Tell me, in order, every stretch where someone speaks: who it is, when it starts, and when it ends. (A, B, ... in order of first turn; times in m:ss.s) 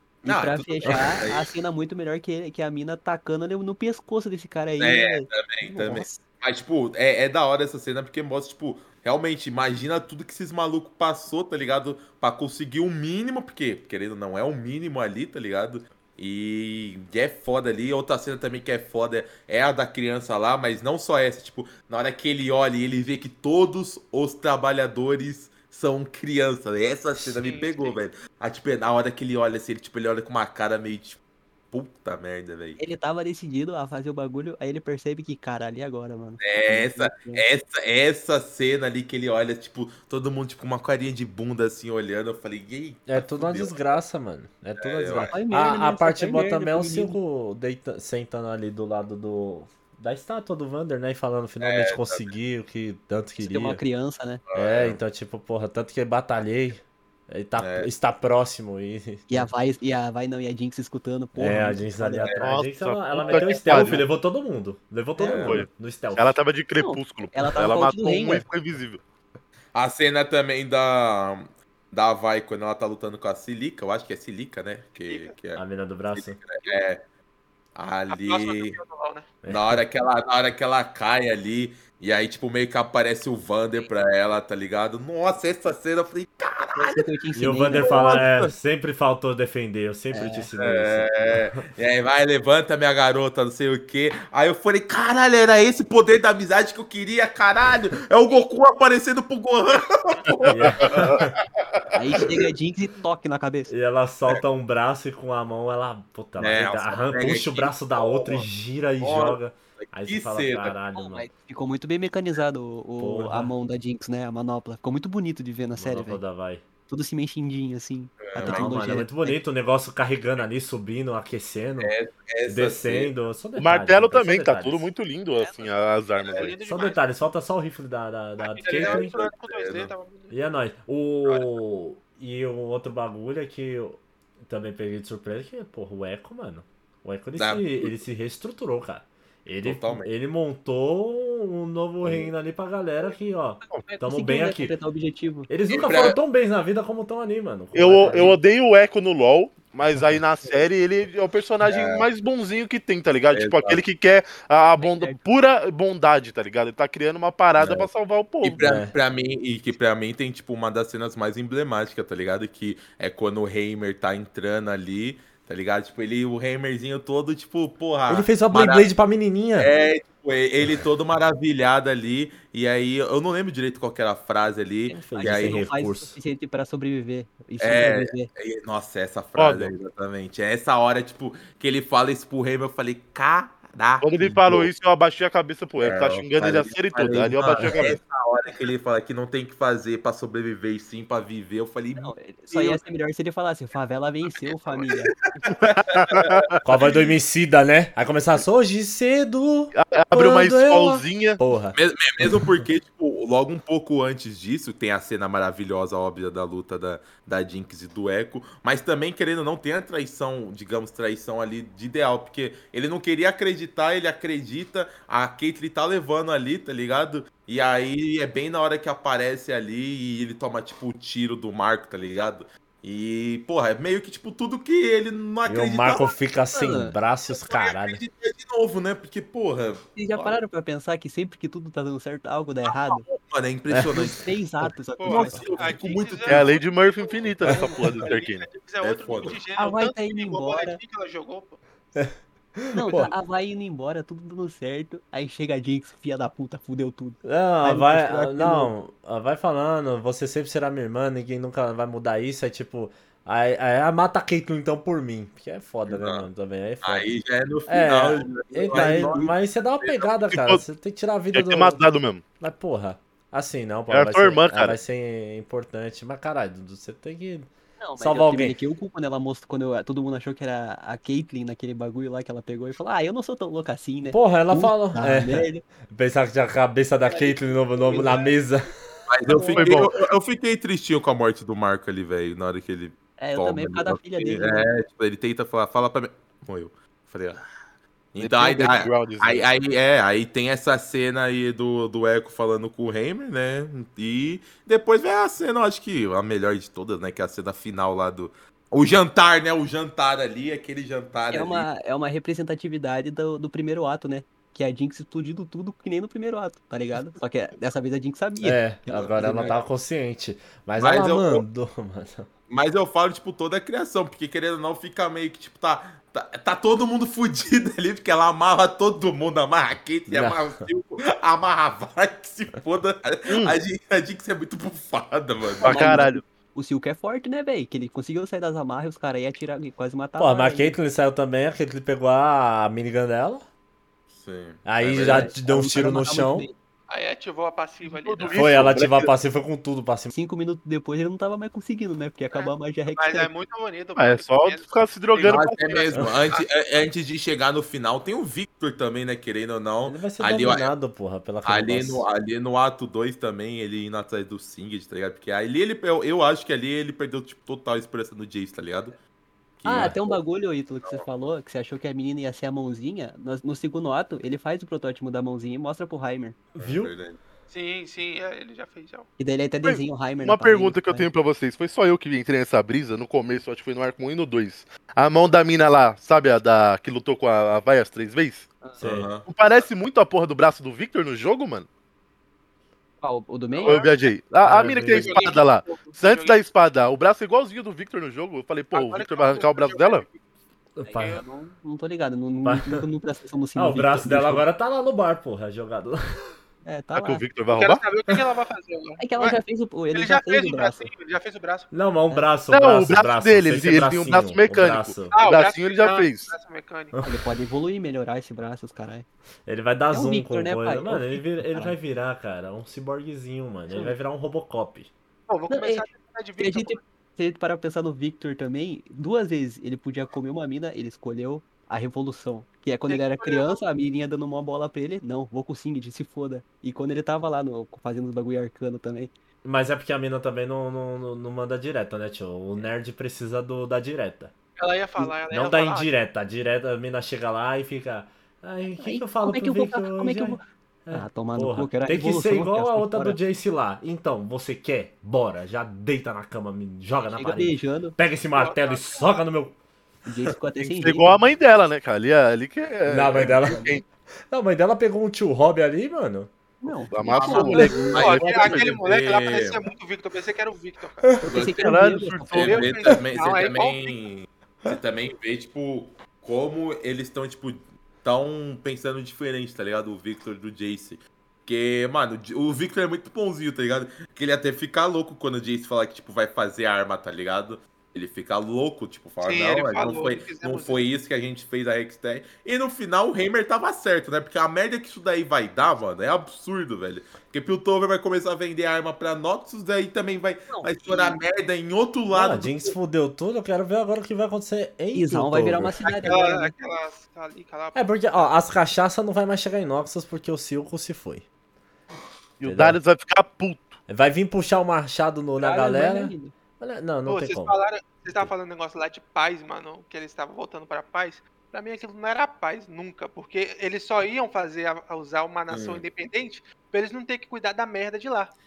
0:00.2-0:05.3 A
0:00.2-0:01.5 B
0:04.8-0:31.2 B
0:27.4-0:27.9 A
0:31.7-0:32.8 B
0:32.8-0:37.4 A
0:36.4-0:43.8 B
0:43.1-0:53.8 C
0:44.8-0:45.4 B
0:45.3-0:47.2 A
0:51.6-0:52.3 B
0:53.4-0:54.4 A
0:54.5-0:55.0 B
0:54.5-0:59.5 C
0:57.6-0:57.9 B
0:59.3-1:02.3 A
1:01.4-1:06.4 C
1:02.4-1:04.0 D
1:03.3-1:03.9 A
1:03.3-1:04.0 B
1:05.2-1:05.4 A
1:05.2-1:05.6 B
1:05.4-1:09.0 D
1:06.8-1:08.4 A
1:09.7-1:15.6 B
1:15.1-1:15.3 E
1:15.6-1:16.4 C
1:16.1-1:17.0 B
1:17.7-1:18.8 B
1:18.1-1:19.3 E
1:19.4-1:19.8 C
1:19.4-1:27.0 B
1:26.8-1:28.2 A
1:27.3-1:31.6 C
1:27.7-1:28.5 B
1:30.1-1:30.5 A
1:30.6-1:42.3 B
1:40.4-1:41.2 D
1:40.5-1:41.3 C
1:41.9-1:43.7 A
1:43.7-1:51.3 C
1:46.4-1:48.5 B
1:49.0-1:50.7 B
1:50.9-1:56.2 A
1:53.0-1:53.5 C
1:55.8-1:56.6 C
1:56.9-1:59.4 A
1:58.2-1:58.9 B
1:58.4-2:01.9 C
2:01.8-2:03.1 B
2:02.4-2:04.9 C
2:03.6-2:06.6 D
2:05.4-2:05.8 A
2:06.2-2:06.5 B
2:06.3-2:07.0 E
2:06.6-2:09.2 C
2:08.4-2:10.3 E
2:08.7-2:09.9 B
2:10.3-2:24.7 C
2:17.3-2:18.0 B
2:19.6-2:20.1 B
2:22.0-2:22.3 B
2:23.6-2:25.5 A
2:25.5-2:28.4 C
2:25.7-2:26.2 B
2:27.7-2:38.6 D
2:31.6-2:32.1 B
2:33.3-2:33.8 B
2:34.8-2:35.2 A
2:37.6-2:37.9 B
2:38.4-2:48.9 B
2:38.6-2:38.9 C
2:48.1-2:49.7 C
2:49.6-2:55.6 B
2:54.9-2:58.3 A
2:55.0-2:56.2 C
2:57.6-3:04.7 B
2:59.4-2:59.7 D
3:04.0-3:08.0 D
3:05.8-3:12.8 B
3:12.0-3:15.1 A
3:14.3-3:17.1 B
3:15.9-3:16.5 D
3:16.6-3:22.6 C
3:19.7-3:21.4 D
3:21.7-3:46.1 B
3:45.5-3:48.0 C
3:46.5-3:46.9 A
3:47.3-3:50.3 B
3:50.0-3:53.0 A
3:52.6-3:54.3 B
3:53.7-3:54.2 C
3:54.1-3:55.8 A
3:55.0-4:01.6 E
3:55.0-3:56.6 B
3:56.2-3:58.5 D
3:58.8-3:59.4 B
3:59.6-4:00.8 A
4:02.0-4:03.1 C
4:02.7-4:08.7 A
4:07.2-4:17.1 C
4:15.9-4:16.3 B
4:16.8-4:20.3 B
4:17.7-4:21.8 C
4:18.7-4:19.3 A
4:20.3-4:20.6 D
4:21.3-4:22.2 D
4:22.4-4:28.5 C
4:23.9-4:24.8 D
4:27.8-4:35.6 A
4:34.1-4:38.7 C
4:37.1-4:38.2 A
4:39.1-4:47.4 B
4:39.3-4:39.9 A
4:39.4-4:39.9 D
4:43.2-4:44.7 A
4:48.1-5:01.7 B
4:48.2-4:49.5 D
5:01.3-5:09.6 A
5:08.4-5:12.3 C
5:08.9-5:09.6 B
5:10.8-5:11.4 B
5:12.5-5:26.0 B
5:20.1-5:20.6 C
5:23.3-5:23.6 D
5:25.6-5:26.2 D
5:25.6-5:30.8 A
5:30.2-5:33.4 C
5:34.1-5:35.3 B
5:34.6-5:36.5 C
5:35.0-5:36.5 A
5:36.9-5:38.5 E
5:37.8-5:39.1 D
5:38.3-5:40.1 C
5:40.1-5:43.3 A
5:42.3-5:46.4 E
5:44.0-5:45.6 D
5:45.3-5:50.7 B
5:49.8-5:52.0 C
5:51.4-5:59.0 B
5:59.6-6:00.1 B
5:59.6-6:06.4 A
5:59.6-5:59.9 C
6:06.5-6:06.9 C
6:06.6-6:07.2 B
6:07.5-6:09.1 E
6:09.2-6:11.1 A
6:09.6-6:18.5 D
6:18.8-6:19.1 C
6:18.8-6:19.3 B
6:19.2-6:21.7 D
6:23.0-6:23.9 A
6:23.5-6:24.1 E
6:23.6-6:30.0 D
6:24.4-6:25.3 A
6:25.0-6:26.4 E
6:28.7-6:30.2 E
6:30.8-6:31.2 C
6:30.9-6:34.4 A
6:30.9-6:31.2 E
6:32.4-6:32.8 C
6:33.5-6:36.3 C
6:36.6-6:37.2 A
6:36.9-6:37.8 D
6:37.5-6:39.4 E
6:39.0-6:40.9 A
6:39.9-6:41.7 E
6:41.7-6:45.1 C
6:42.5-6:46.3 D
6:45.1-6:47.0 E
6:46.9-6:47.2 C
6:47.0-6:49.0 A
6:49.4-6:54.9 C
6:49.9-6:51.7 A
6:55.3-6:56.8 E
6:55.5-7:09.1 A
7:02.9-7:03.6 E
7:09.4-7:14.3 C
7:14.6-7:15.9 E
7:15.0-7:29.5 C
7:18.8-7:23.2 A
7:27.0-7:28.0 A
7:28.3-7:29.1 E
7:30.0-7:31.2 A
7:30.6-7:33.8 D
7:32.9-7:33.7 C
7:33.4-7:33.8 A
7:34.3-7:36.8 C
7:36.6-7:38.6 A
7:36.9-7:38.0 D
7:37.0-7:39.6 B
7:37.4-7:41.1 E
7:41.0-7:41.3 C
7:41.2-7:42.6 A
7:41.3-7:41.8 B
7:41.6-7:42.6 D
7:42.3-8:12.8 B
7:42.4-7:43.9 E
7:59.2-8:00.8 E
8:10.5-8:11.2 A
8:12.1-8:15.8 C
8:14.9-8:16.5 A
8:15.8-8:18.0 E
8:17.7-8:21.2 C
8:22.4-8:23.8 D
8:22.4-8:22.8 C
8:23.9-8:27.6 C
8:25.4-8:26.3 A
8:27.1-8:38.3 E
8:35.5-8:35.8 B